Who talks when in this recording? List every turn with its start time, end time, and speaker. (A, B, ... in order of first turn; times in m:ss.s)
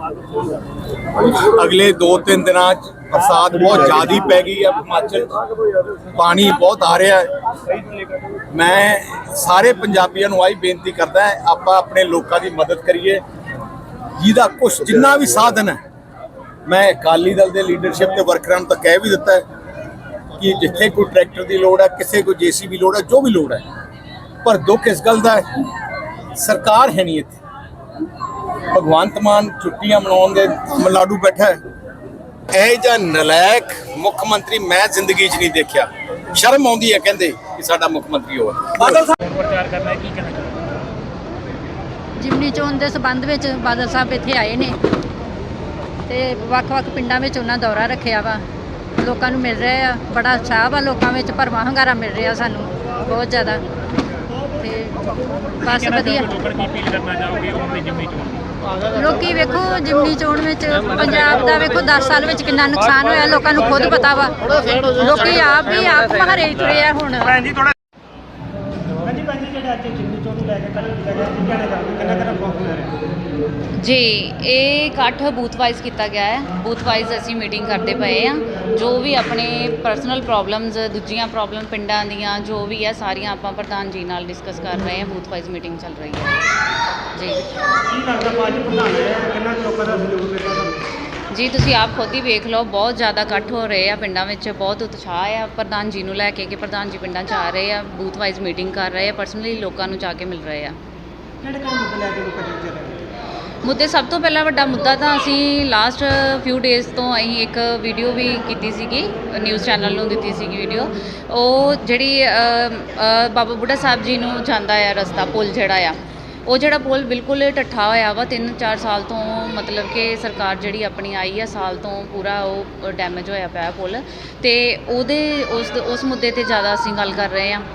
0:01.2-0:05.4 A
0:06.1-0:07.2 A
0:08.5-0:13.2 A
0:14.2-0:15.8 A
0:16.7-0:19.4 A
0:20.4-0:23.6 A
0:24.4-0:25.4 A
0:26.4-0:27.4 A
0:28.7-0:31.6 A
0:32.5-0:39.1 A
0:39.2-0:40.7 B
0:42.2-0:44.8 C
0:46.1-0:48.4 C
0:49.0-0:53.6 C
0:54.6-0:55.0 C
0:55.6-0:56.4 C
0:56.4-0:58.4 B
0:58.8-1:07.4 C
1:09.0-1:13.0 D
1:13.8-1:26.4 E
1:27.2-1:27.4 E
1:27.9-1:30.8 D
1:31.3-1:40.8 E
1:41.4-1:43.1 D
1:43.6-2:07.6 E